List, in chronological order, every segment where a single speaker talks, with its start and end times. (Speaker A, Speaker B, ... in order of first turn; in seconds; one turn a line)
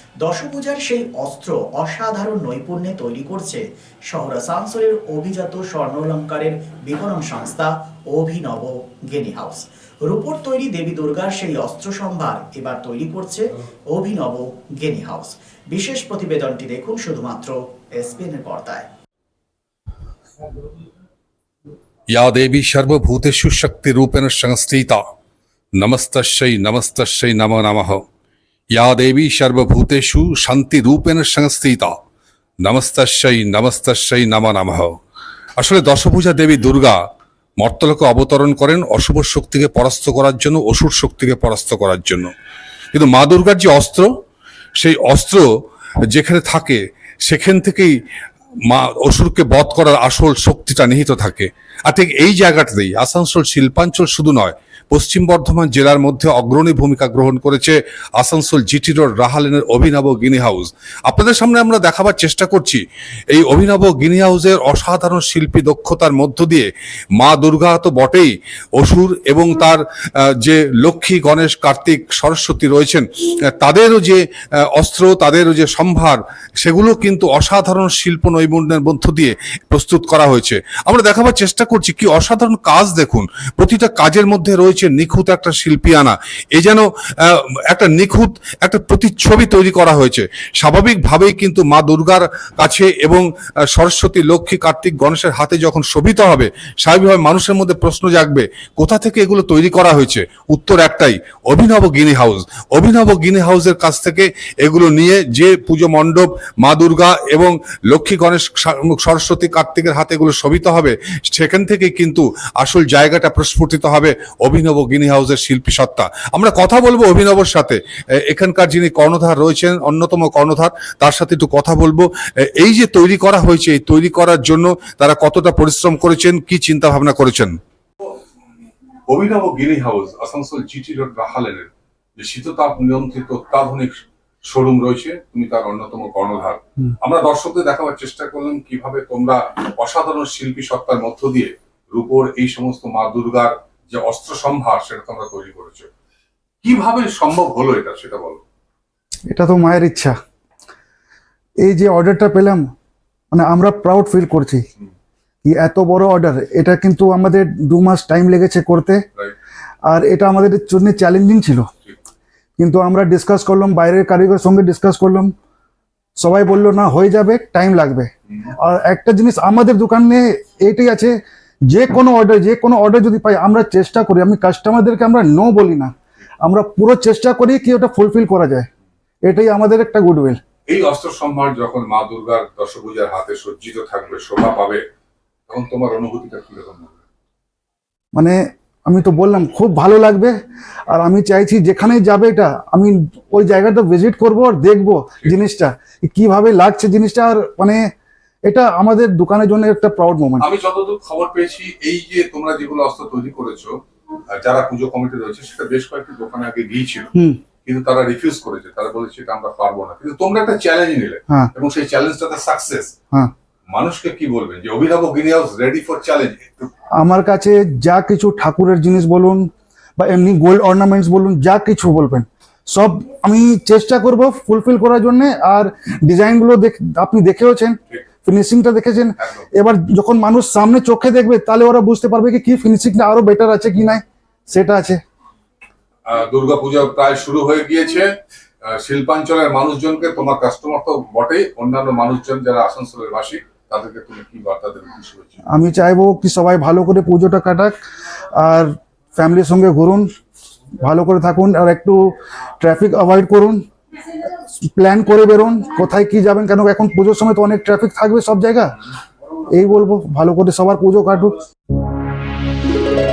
Speaker A: 0.2-18.9
Speaker B: 22.1-25.0
Speaker B: 25.8-28.0
Speaker B: 28.7-31.9
Speaker B: 32.6-35.0
Speaker B: 35.6-37.0
Speaker B: 37.6-42.3
Speaker B: 42.9-44.1
Speaker B: 44.8-45.5
Speaker B: 46.1-47.9
Speaker B: 48.7-66.7
Speaker B: 67.2-74.2
Speaker B: 74.7-117.8
Speaker B: 118.3-122.1
Speaker B: 122.6-127.5
Speaker B: 129.1-145.9
Speaker B: 146.6-148.4
Speaker C: 149.3-150.2
Speaker C: 151.6-152.7
Speaker C: 153.3-154.7
Speaker C: 155.4-159.0
Speaker C: 159.9-161.7
Speaker C: 162.6-165.3
Speaker C: 166.2-171.2
Speaker C: 171.7-178.7
Speaker C: 179.2-180.4
Speaker B: 180.7-184.8
Speaker B: 185.5-187.0
Speaker C: 188.1-190.3
Speaker C: 190.9-197.8
Speaker C: 198.5-200.5
Speaker B: 200.4-203.7
Speaker B: 204.3-207.1
Speaker C: 207.1-207.4
Speaker B: 207.7-212.9
Speaker B: 213.7-216.7
Speaker C: 217.0-235.0
Speaker B: 236.1-238.1
Speaker B: 238.7-245.4
Speaker C: 245.5-247.7
Speaker C: 248.3-250.1
Speaker C: 250.8-253.6
Speaker C: 254.6-258.8
Speaker C: 259.5-261.4